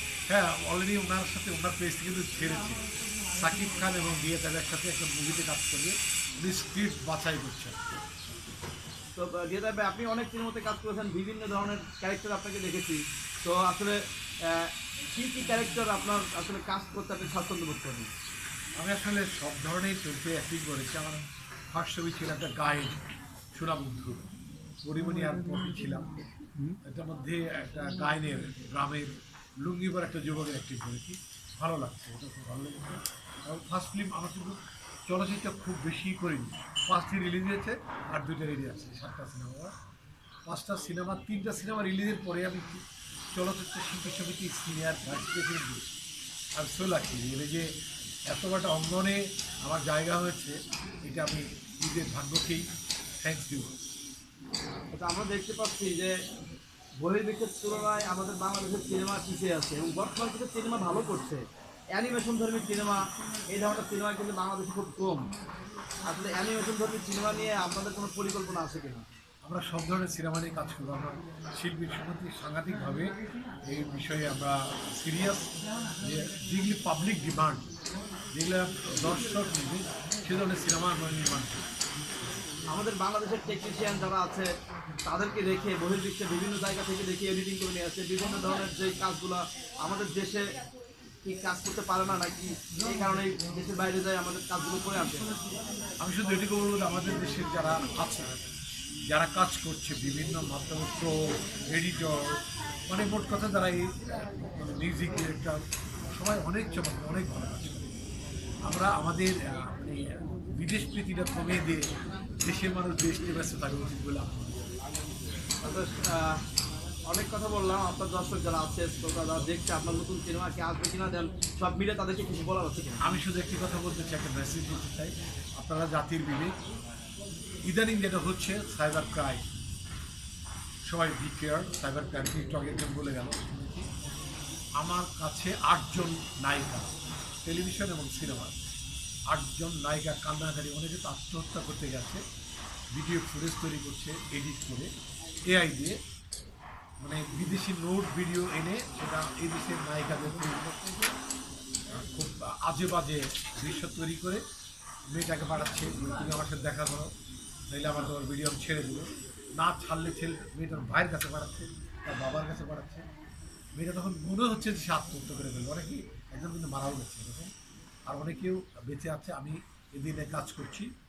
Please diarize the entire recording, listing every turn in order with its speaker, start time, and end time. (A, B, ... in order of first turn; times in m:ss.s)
0:00.3-0:07.8 A
0:09.1-0:18.1 B
0:18.8-0:23.0 A
0:23.5-0:24.3 A
0:24.8-0:26.2 A
0:26.8-0:39.7 A
0:40.4-0:46.0 A
0:46.6-0:47.8 A
0:48.3-0:52.6 A
0:53.2-0:53.7 A
0:54.9-0:56.1 B
0:57.0-1:05.3 B
1:06.0-1:09.0 B
1:09.4-1:13.1 A
1:13.7-1:17.7 A
1:18.3-1:21.6 A
1:22.7-1:24.5 B
1:25.0-1:30.5 B
1:31.2-1:35.3 B
1:36.0-1:38.3 A
1:39.1-1:47.9 A
1:48.6-1:51.8 A
1:52.4-1:54.4 A
1:55.6-1:56.4 B
1:57.1-2:03.0 B
2:03.0-2:06.5 A
2:07.6-2:09.4 A
2:10.8-2:13.9 A
2:14.8-2:16.9 A
2:17.4-2:18.6 A
2:19.3-2:22.2 A
2:22.9-2:24.9 A
2:25.5-2:26.0 A
2:27.0-2:31.0 A
2:31.9-2:34.4 A
2:35.1-2:37.1 A
2:37.7-2:43.0 A
2:43.7-2:47.5 A
2:48.1-2:50.9 A